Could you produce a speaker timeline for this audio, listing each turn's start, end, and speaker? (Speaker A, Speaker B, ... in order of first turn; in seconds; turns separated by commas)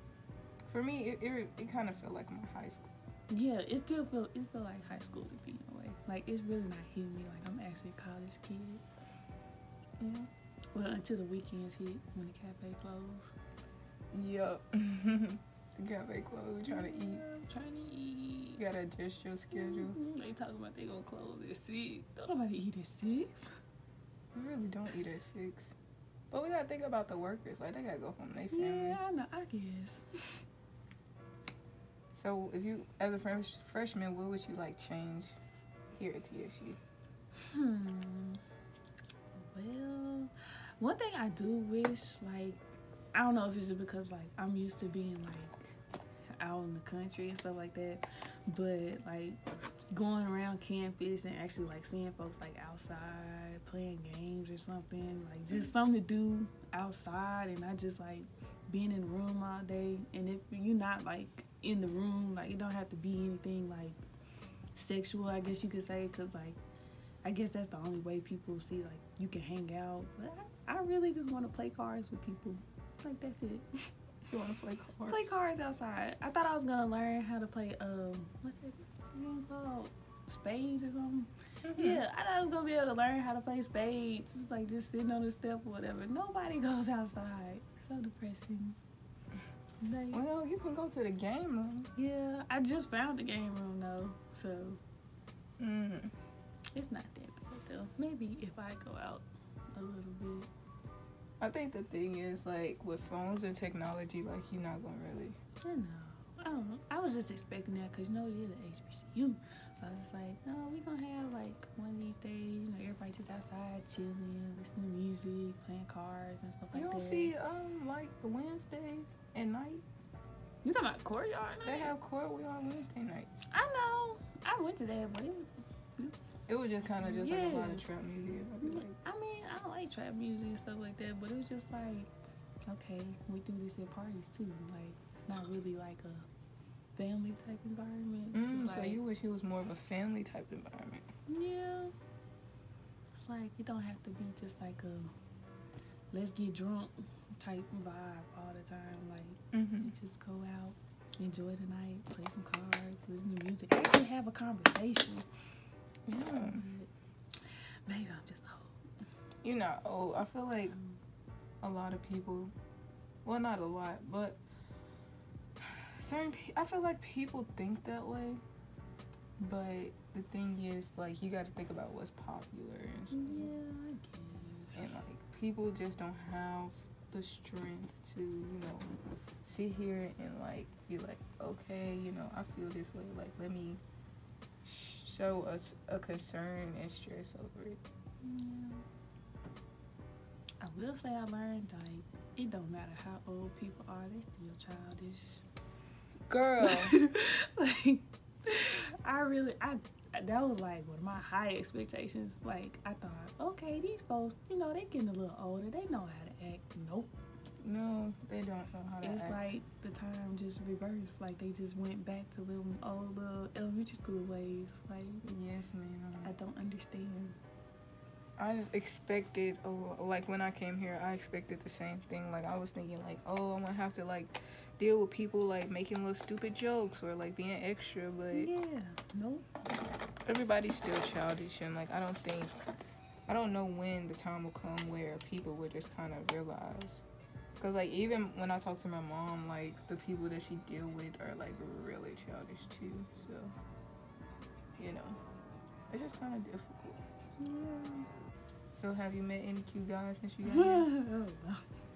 Speaker A: 0.7-2.9, Speaker B: 3.3-8.8, Speaker A: 10.0-10.3, Speaker B: 10.7-13.3, Speaker A: 14.1-17.2, Speaker B: 16.7-18.6, Speaker A: 18.6-20.0, Speaker B: 19.5-23.6, Speaker A: 24.4-25.7, Speaker A: 26.3-29.0, Speaker B: 28.5-30.4, Speaker A: 32.1-35.3, Speaker A: 35.9-36.8, Speaker B: 37.4-38.4, Speaker B: 39.4-42.6, Speaker B: 43.1-45.8, Speaker B: 46.4-64.0, Speaker B: 64.8-66.6, Speaker B: 67.2-73.9, Speaker A: 74.3-75.4, Speaker B: 75.1-88.8, Speaker A: 81.6-82.0, Speaker B: 89.8-90.2, Speaker A: 90.1-91.9, Speaker B: 92.0-94.8, Speaker A: 95.6-96.1, Speaker B: 96.7-100.5, Speaker A: 101.4-105.4, Speaker B: 105.6-117.3, Speaker A: 116.7-119.8, Speaker B: 120.6-121.9, Speaker A: 121.7-123.5, Speaker B: 123.5-126.4, Speaker A: 126.5-128.9, Speaker B: 127.0-127.8, Speaker B: 128.6-132.1, Speaker B: 132.7-136.3, Speaker B: 136.9-139.0, Speaker A: 138.3-141.1, Speaker B: 141.3-141.9, Speaker B: 143.1-145.1, Speaker B: 146.1-155.3, Speaker A: 149.5-149.9, Speaker A: 156.1-156.7, Speaker B: 156.3-156.9, Speaker B: 157.9-158.9, Speaker A: 159.4-160.8, Speaker A: 161.6-162.5, Speaker A: 163.2-164.4, Speaker A: 165.6-168.4, Speaker A: 169.4-173.5, Speaker B: 173.1-174.8, Speaker A: 174.8-178.9, Speaker A: 179.4-183.8, Speaker A: 184.6-187.8, Speaker B: 188.2-188.8, Speaker B: 190.6-195.4, Speaker A: 196.3-197.0, Speaker B: 196.6-207.1, Speaker A: 207.6-209.4, Speaker B: 209.0-215.2, Speaker A: 215.2-216.3, Speaker B: 216.2-217.4, Speaker A: 218.4-228.5, Speaker B: 228.3-229.5, Speaker A: 230.3-232.6, Speaker A: 233.3-237.0, Speaker A: 237.6-243.5, Speaker A: 244.8-245.2, Speaker A: 245.9-247.0, Speaker B: 247.4-248.1, Speaker A: 248.7-250.9, Speaker B: 250.4-251.7